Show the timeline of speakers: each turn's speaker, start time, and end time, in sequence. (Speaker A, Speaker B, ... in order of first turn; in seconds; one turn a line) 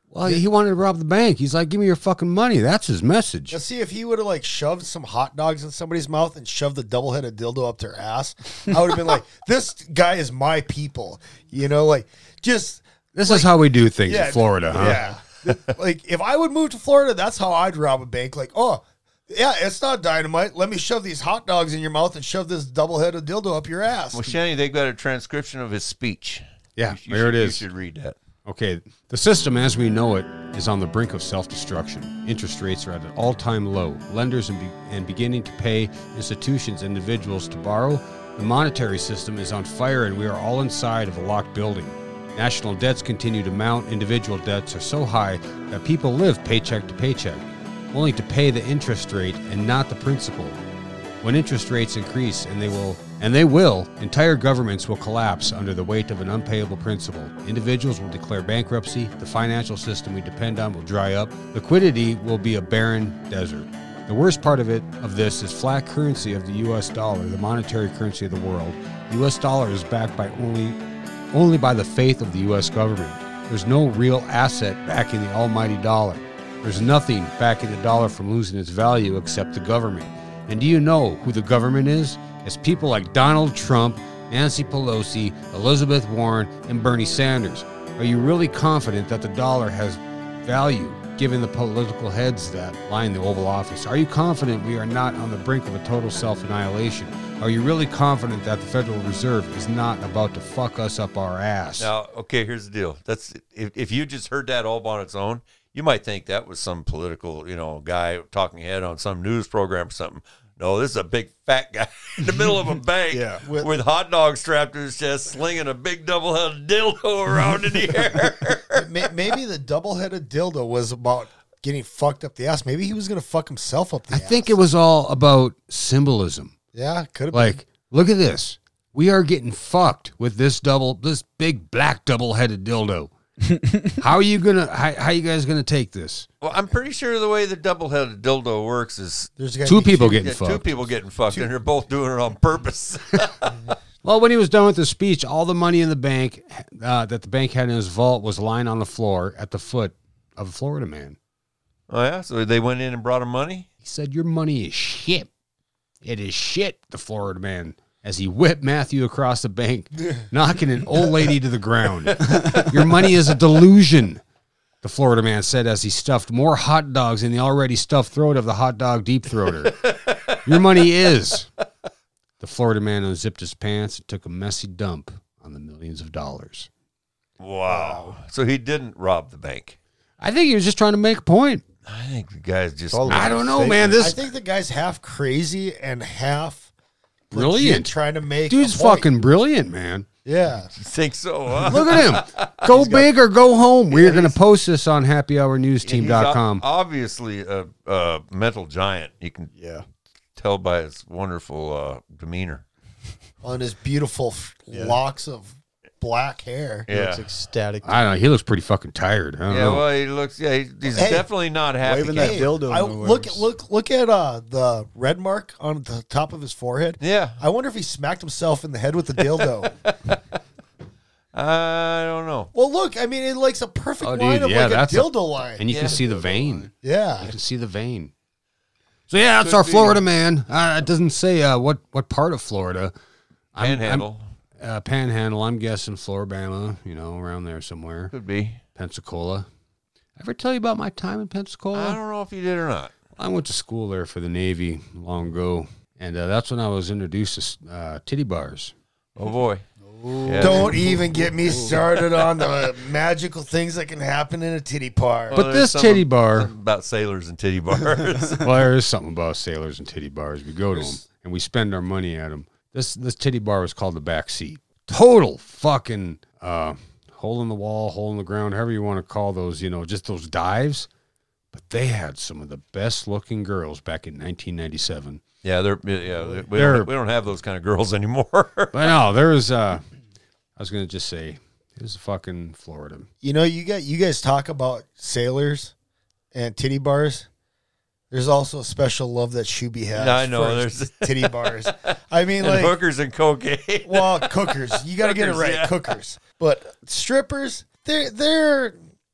Speaker A: 0.1-3.6
Speaker B: 3.5-13.5
Speaker A: 13.2-15.0
Speaker B: 14.1-24.4
Speaker C: 24.1-28.2
Speaker A: 26.8-27.6
Speaker A: 28.4-50.6
Speaker A: 51.2-70.8
Speaker A: 71.3-101.9
Speaker C: 101.8-118.9
Speaker D: 113.1-113.5
Speaker B: 113.5-113.7
Speaker B: 118.7-124.5
Speaker A: 124.1-126.5
Speaker B: 126.7-127.6
Speaker A: 127.3-133.1
Speaker A: 134.0-136.3
Speaker C: 136.4-139.3
Speaker B: 139.4-140.3
Speaker A: 139.7-140.7
Speaker C: 140.1-143.5
Speaker A: 144.0-151.2
Speaker C: 151.9-153.7
Speaker A: 153.8-155.3
Speaker A: 156.0-164.2
Speaker A: 164.8-169.8
Speaker C: 169.6-170.5
Speaker A: 170.4-171.5
Speaker A: 172.4-176.7
Speaker C: 177.4-179.8
Speaker B: 177.7-178.2
Speaker A: 180.2-181.6
Speaker C: 181.9-183.5
Speaker D: 182.9-184.0
Speaker A: 183.1-184.2
Speaker B: 184.0-186.7
Speaker A: 187.3-187.9
Speaker B: 187.3-189.1
Speaker A: 188.5-190.1
Speaker B: 190.3-190.7
Speaker C: 190.8-192.7
Speaker A: 191.6-196.6
Speaker D: 192.7-193.1
Speaker B: 193.9-194.3
Speaker C: 195.8-199.5
Speaker D: 199.5-199.8
Speaker C: 200.4-202.7
Speaker B: 203.4-206.9
Speaker D: 204.7-205.0
Speaker C: 206.9-207.3
Speaker D: 206.9-208.0
Speaker A: 207.8-209.8
Speaker C: 209.5-212.5
Speaker B: 210.9-211.3
Speaker D: 211.8-213.5
Speaker B: 212.1-219.7
Speaker C: 217.0-217.4
Speaker C: 219.4-220.2
Speaker C: 221.3-222.5
Speaker B: 222.5-225.7
Speaker A: 224.0-228.1
Speaker C: 225.7-226.0
Speaker D: 225.8-226.7
Speaker B: 226.8-227.3
Speaker A: 229.1-232.9
Speaker C: 229.4-230.0
Speaker A: 233.5-234.1
Speaker C: 233.6-234.3
Speaker A: 234.6-238.1
Speaker C: 238.1-238.6
Speaker A: 238.8-239.5
Speaker A: 240.2-242.0
Speaker C: 241.7-242.9
Speaker A: 243.2-248.7
Speaker C: 249.2-249.7
Speaker D: 249.8-251.8
Speaker C: 250.2-250.8
Speaker B: 250.4-255.4
Speaker A: 255.3-256.5
Speaker C: 255.3-258.4
Speaker A: 258.3-270.9
Speaker A: 271.5-275.2
Speaker C: 275.4-278.9
Speaker A: 276.5-276.9
Speaker A: 278.7-279.8
Speaker A: 280.6-283.1
Speaker B: 283.2-285.7
Speaker B: 286.3-287.3
Speaker B: 288.1-292.8
Speaker C: 289.9-291.9
Speaker C: 292.4-295.9
Speaker B: 293.9-298.8